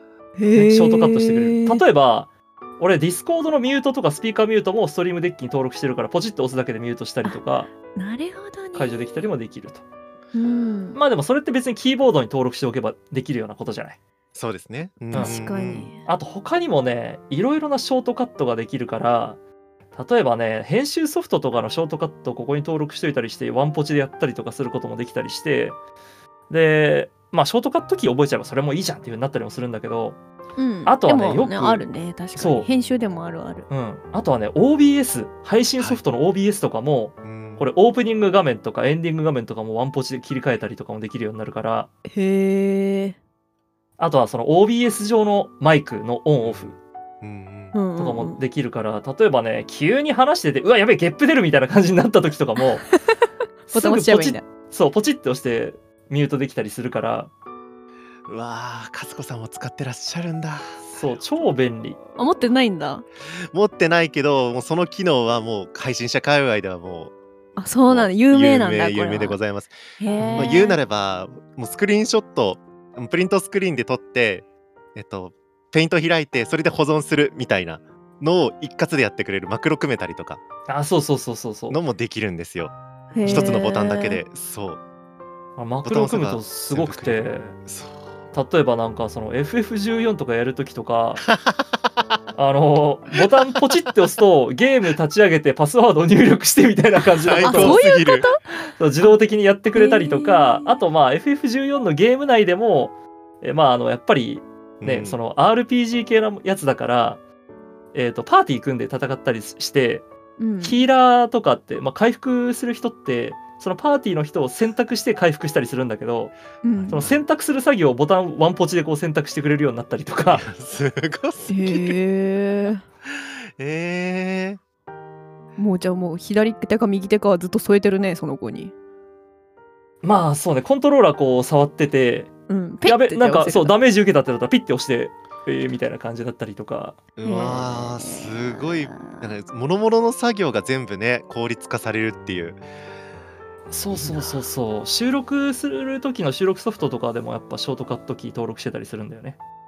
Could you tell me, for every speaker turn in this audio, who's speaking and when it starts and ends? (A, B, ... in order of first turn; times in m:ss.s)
0:00.4-0:01.8 A
0:00.5-0:07.7 B
0:07.2-0:09.0 A
0:08.7-0:09.8 B
0:10.3-0:11.0 A
0:11.0-0:14.0 B
0:14.4-0:15.9 C
0:15.1-0:15.4 B
0:15.1-0:16.0 A
0:16.1-0:19.4 B
0:20.0-0:25.8 B
0:26.5-0:30.2 B
0:30.6-0:33.7 A
0:30.9-0:32.7 B
0:33.7-0:41.9 B
0:37.2-0:37.7 C
0:42.1-0:43.2 A
0:44.0-0:46.8 B
0:46.4-0:47.8 C
0:47.7-0:48.4 A
0:48.0-0:52.9 B
0:53.1-0:54.4 A
0:53.7-0:57.3 B
0:58.3-1:00.8 C
1:00.8-1:02.0 B
1:02.2-1:03.0 A
1:03.5-1:07.1 C
1:07.6-1:09.4 A
1:07.9-1:09.8 C
1:10.0-1:10.8 A
1:10.2-1:10.5 B
1:10.3-1:20.4 C
1:20.7-1:21.8 B
1:21.7-1:24.8 C
1:23.1-1:24.2 A
1:23.2-1:23.5 B
1:25.6-1:27.6 B
1:25.8-1:28.1 C
1:28.3-1:31.3 B
1:31.3-1:31.6 C
1:32.4-1:37.8 B
1:37.2-1:38.3 C
1:37.4-1:38.4 A
1:38.8-1:47.2 B
1:39.8-1:40.8 A
1:44.8-1:45.2 C
1:47.9-1:50.1 B
1:50.4-1:50.8 A
1:50.6-1:56.4 B
1:56.6-1:57.0 A
1:56.8-1:57.2 C
1:56.9-2:00.5 B
2:00.3-2:02.0 C
2:01.5-2:02.8 A
2:03.2-2:04.6 C
2:05.6-2:08.7 A
2:10.0-2:12.3 B
2:12.5-2:13.7 A
2:12.8-2:17.0 B
2:17.2-2:22.6 C
2:17.2-2:19.3 A
2:23.7-2:29.4 B
2:23.9-2:24.4 C